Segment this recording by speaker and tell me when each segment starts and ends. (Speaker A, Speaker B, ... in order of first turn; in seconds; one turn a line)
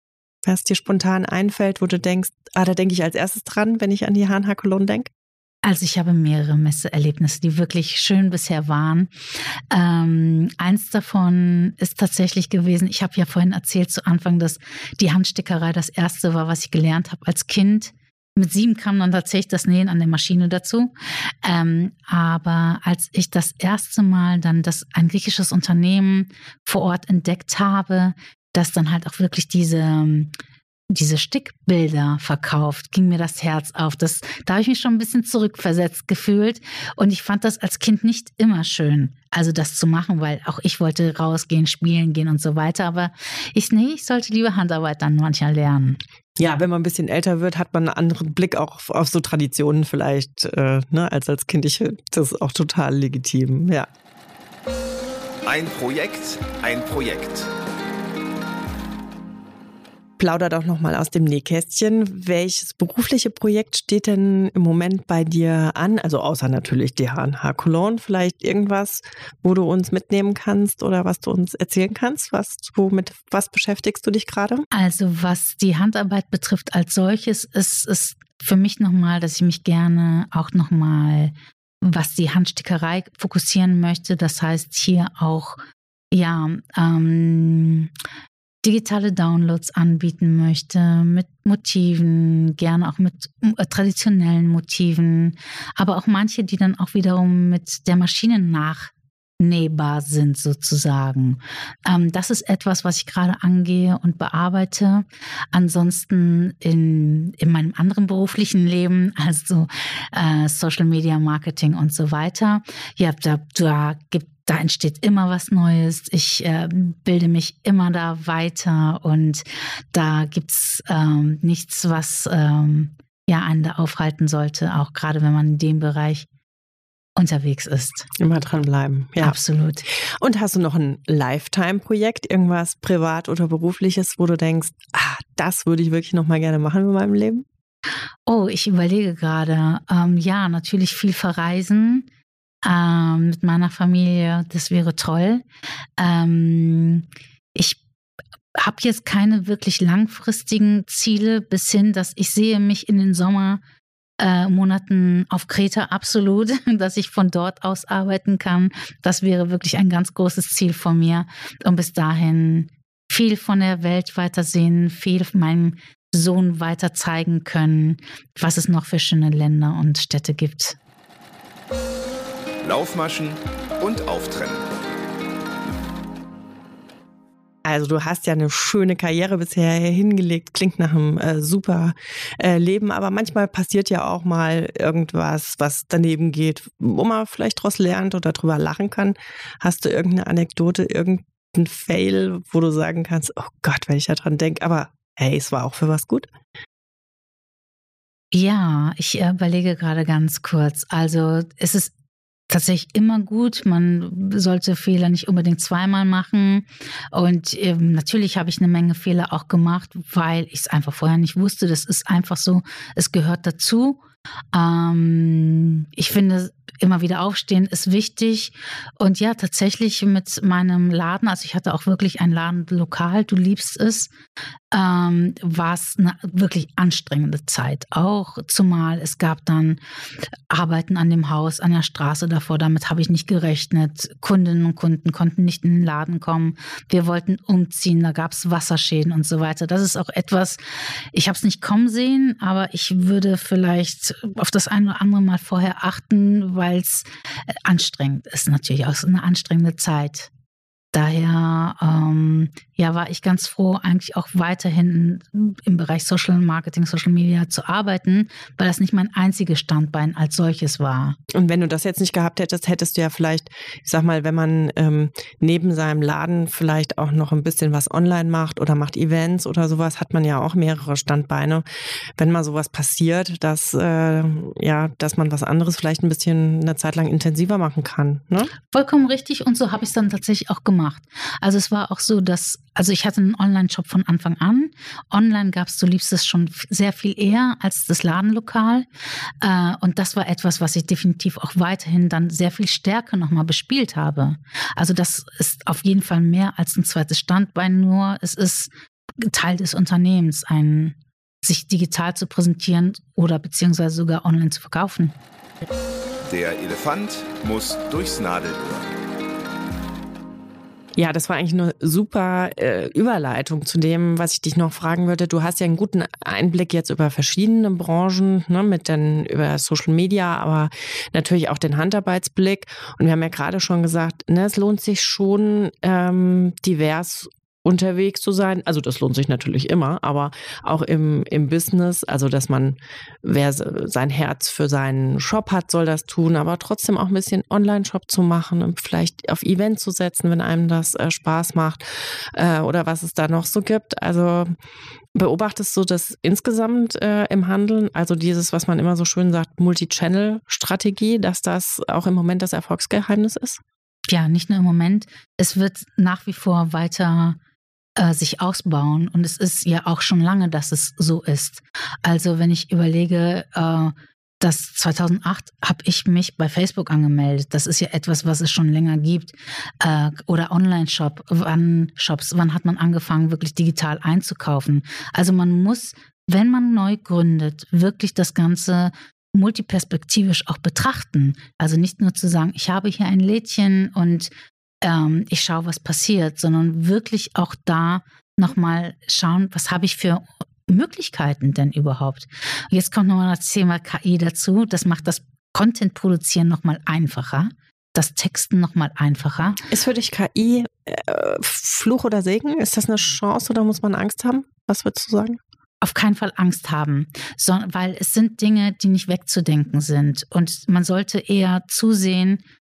Speaker A: 0.5-5.1
Speaker B: 5.6-9.1
Speaker B: 9.7-30.3
Speaker B: 30.9-46.0
Speaker A: 46.4-53.9
Speaker C: 55.5-57.5
Speaker A: 60.2-74.7
Speaker B: 74.7-85.6
Speaker B: 86.1-87.9
Speaker B: 88.6-126.3
Speaker B: 127.2-128.1
Speaker A: 128.2-137.5
Speaker B: 129.2-129.9
Speaker B: 138.3-142.1
Speaker B: 142.6-145.4
Speaker B: 146.0-147.8
Speaker B: 148.6-153.6
Speaker B: 154.2-170.8
Speaker C: 172.6-174.7
Speaker A: 177.7-196.3
Speaker B: 198.3-201.9
Speaker B: 202.5-214.0
Speaker B: 214.5-224.1
Speaker B: 224.7-229.8
Speaker B: 230.5-250.3
Speaker B: 250.9-261.2
Speaker A: 261.3-271.6
Speaker A: 272.2-278.5
Speaker B: 278.7-288.9
Speaker B: 289.4-305.2
Speaker C: 306.2-308.9
Speaker A: 311.0-344.6
Speaker A: 345.1-353.6
Speaker B: 354.1-357.4
Speaker B: 358.0-384.3
Speaker B: 384.8-399.6
Speaker A: 399.6-405.4
Speaker B: 405.8-412.4